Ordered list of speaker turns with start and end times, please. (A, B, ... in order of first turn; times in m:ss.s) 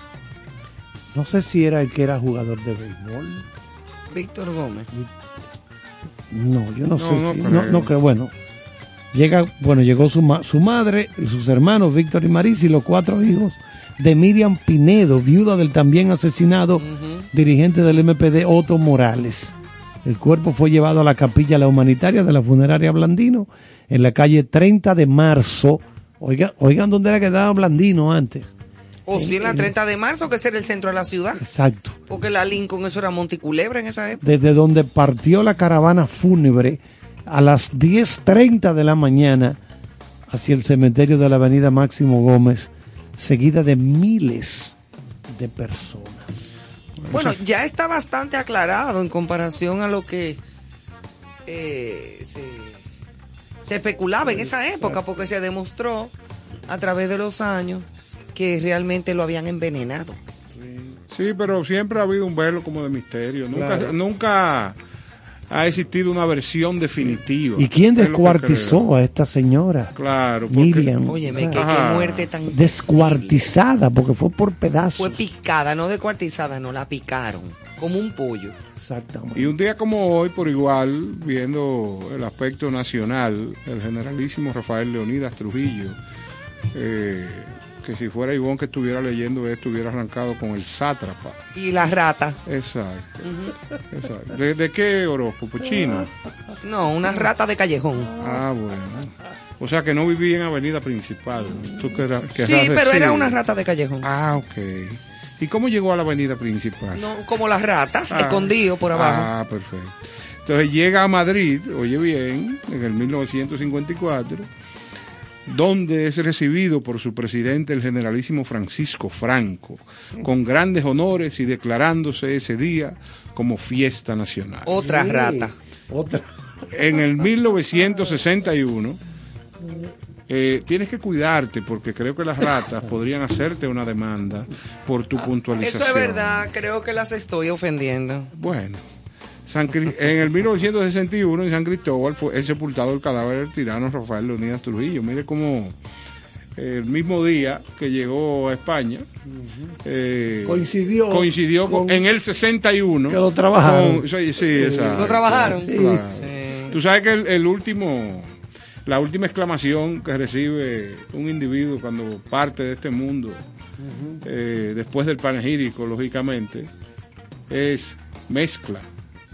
0:01.1-0:03.4 A
0:04.1-0:04.9 B
0:06.3-0:08.3 A
0:07.0-0:07.9 C
0:09.1-0:28.5 A
0:16.8-0:17.3 B
0:29.0-0:31.4 B
0:29.1-0:29.7 A
0:31.4-0:32.0 A
0:32.1-0:34.2 B
0:34.2-0:39.6 A
0:40.3-0:44.8 A
0:45.3-0:46.7 A
0:47.1-0:50.4 B
0:51.4-0:52.8 B
0:53.6-0:56.1 B
0:54.2-0:55.0 A
0:56.7-1:00.2 B
1:00.5-1:01.0 A
1:01.1-1:04.8 C
1:03.5-1:04.0 A
1:05.5-1:08.9 C
1:07.6-1:09.9 A
1:10.0-1:12.3 C
1:10.5-1:11.7 A
1:11.0-1:13.5 B
1:12.5-1:15.2 A
1:15.0-1:18.6 B
1:18.8-1:19.5 A
1:19.3-1:26.0 C
1:26.7-1:31.4 C
1:31.6-1:32.4 B
1:32.4-1:33.2 C
1:33.2-1:33.5 B
1:33.9-1:36.1 C
1:36.6-1:38.1 B
1:38.2-1:43.4 C
1:42.4-1:44.1 B
1:44.0-1:47.0 C
1:46.9-1:49.3 B
1:48.1-1:54.5 C
1:55.5-2:04.7 C
2:04.6-2:05.5 B
2:04.8-2:06.2 A
2:06.7-2:09.0 C
2:10.3-2:16.5 C
2:15.6-2:18.3 B
2:18.3-2:18.8 C
2:19.5-2:25.7 C
2:26.6-2:29.0 C
2:29.3-2:29.7 A
2:29.8-2:38.3 C
2:30.4-2:32.0 A
2:33.1-2:36.0 A
2:34.9-2:36.7 B
2:38.8-2:43.4 C
2:43.8-2:44.2 A
2:44.2-2:46.7 C
2:47.5-2:48.8 C